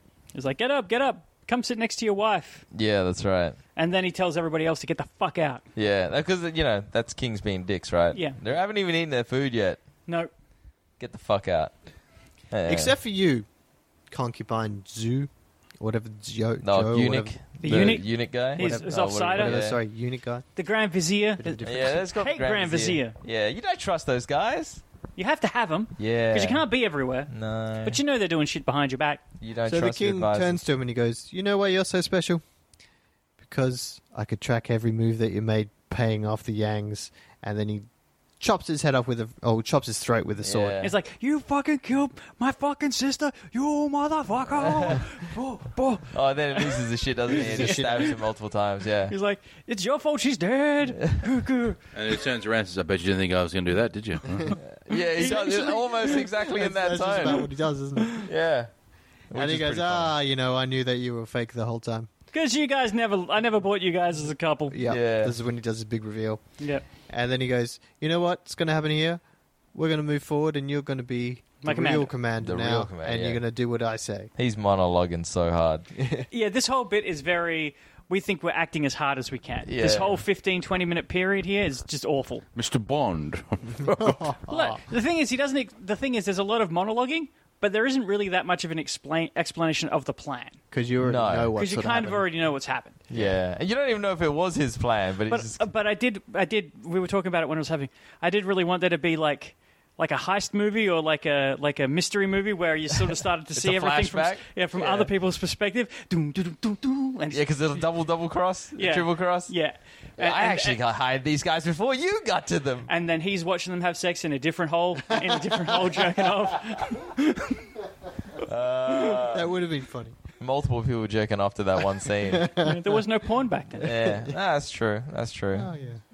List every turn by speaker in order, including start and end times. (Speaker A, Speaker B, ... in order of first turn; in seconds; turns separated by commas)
Speaker A: 0.3-2.6, Speaker B: 2.7-3.6, Speaker A: 3.8-5.6, Speaker B: 5.8-9.8, Speaker A: 8.1-8.4, Speaker B: 11.0-11.7, Speaker B: 12.5-12.9, Speaker C: 12.7-13.5, Speaker C: 14.1-18.0, Speaker B: 16.6-19.8, Speaker A: 17.6-19.6, Speaker C: 18.6-20.5, Speaker A: 20.6-23.2, Speaker C: 21.4-22.1, Speaker B: 21.6-24.8, Speaker A: 25.2-27.3, Speaker B: 26.0-26.6, Speaker B: 27.3-28.0, Speaker A: 27.8-29.2, Speaker B: 29.4-30.6, Speaker C: 29.7-32.4, Speaker C: 33.4-37.9, Speaker C: 38.4-40.8, Speaker B: 40.4-41.0, Speaker A: 40.8-48.1, Speaker B: 44.6-45.0, Speaker B: 46.1-49.1, Speaker C: 47.3-48.2, Speaker A: 49.1-51.8, Speaker D: 51.9-54.6, Speaker B: 54.6-57.5, Speaker A: 55.2-55.8, Speaker C: 55.2-58.3, Speaker B: 58.1-58.7, Speaker B: 59.3-60.1, Speaker C: 59.3-62.1, Speaker A: 62.3-64.8, Speaker C: 64.7-66.4, Speaker B: 64.8-65.4, Speaker A: 66.6-66.9, Speaker C: 67.1-69.2, Speaker C: 69.7-74.3, Speaker A: 71.6-72.1, Speaker B: 72.4-73.4, Speaker B: 74.4-76.2, Speaker A: 76.3-82.4, Speaker B: 79.6-80.2, Speaker D: 82.5-84.3, Speaker C: 83.8-84.8, Speaker A: 84.5-90.6, Speaker C: 90.7-92.3, Speaker B: 91.0-91.5, Speaker A: 91.6-93.0, Speaker B: 93.1-95.7, Speaker A: 95.3-107.5, Speaker B: 103.5-105.1, Speaker B: 107.3-109.5, Speaker A: 108.8-110.8, Speaker B: 110.2-112.9, Speaker A: 112.9-117.7, Speaker B: 118.4-119.5, Speaker C: 119.1-120.2, Speaker B: 120.4-122.5, Speaker C: 122.2-122.9, Speaker A: 122.6-123.9, Speaker B: 123.8-125.7, Speaker C: 123.8-124.4, Speaker C: 125.5-126.0